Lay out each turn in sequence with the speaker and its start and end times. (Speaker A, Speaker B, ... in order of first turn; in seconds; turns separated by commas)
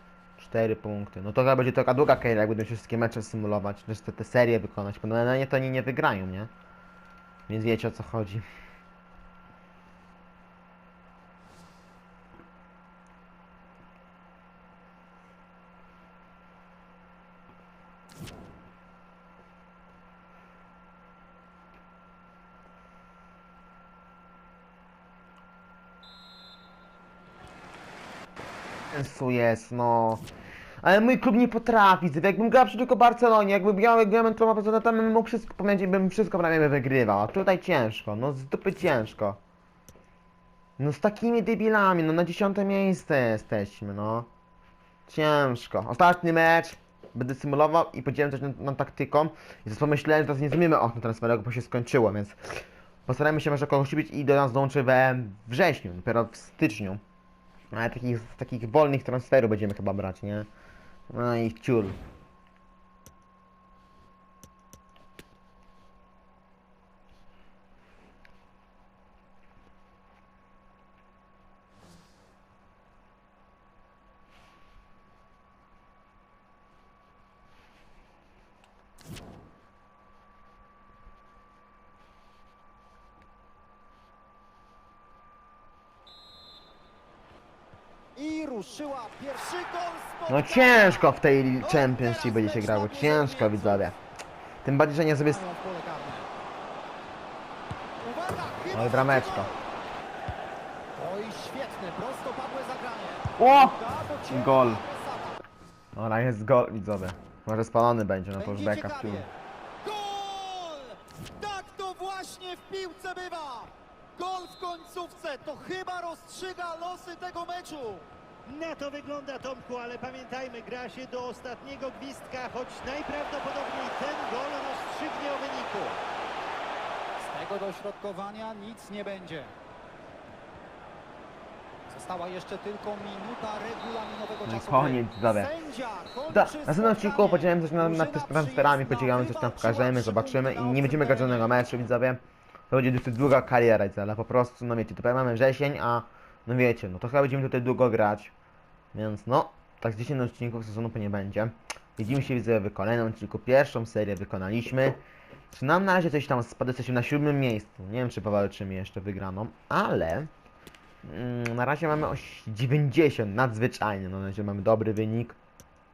Speaker A: 0.4-6.5, Speaker A: 7.5-8.4, Speaker A: 28.9-30.2, Speaker A: 30.8-39.4, Speaker A: 40.8-44.3, Speaker A: 45.1-57.0, Speaker A: 57.7-60.5, Speaker A: 61.1-62.0, Speaker B: 88.2-93.9, Speaker A: 90.3-94.0, Speaker A: 94.6-95.4, Speaker B: 95.2-96.3, Speaker B: 98.0-99.6, Speaker A: 98.7-99.5, Speaker B: 101.0-105.4, Speaker A: 103.4-104.8, Speaker A: 106.0-109.2, Speaker B: 108.4-109.3, Speaker B: 109.8-119.6, Speaker C: 118.6-125.8, Speaker B: 123.8-126.0, Speaker B: 127.2-129.5, Speaker B: 131.9-141.6, Speaker A: 134.4-135.5, Speaker A: 136.3-148.3, Speaker A: 148.9-155.0, Speaker A: 155.5-160.3, Speaker A: 161.0-165.4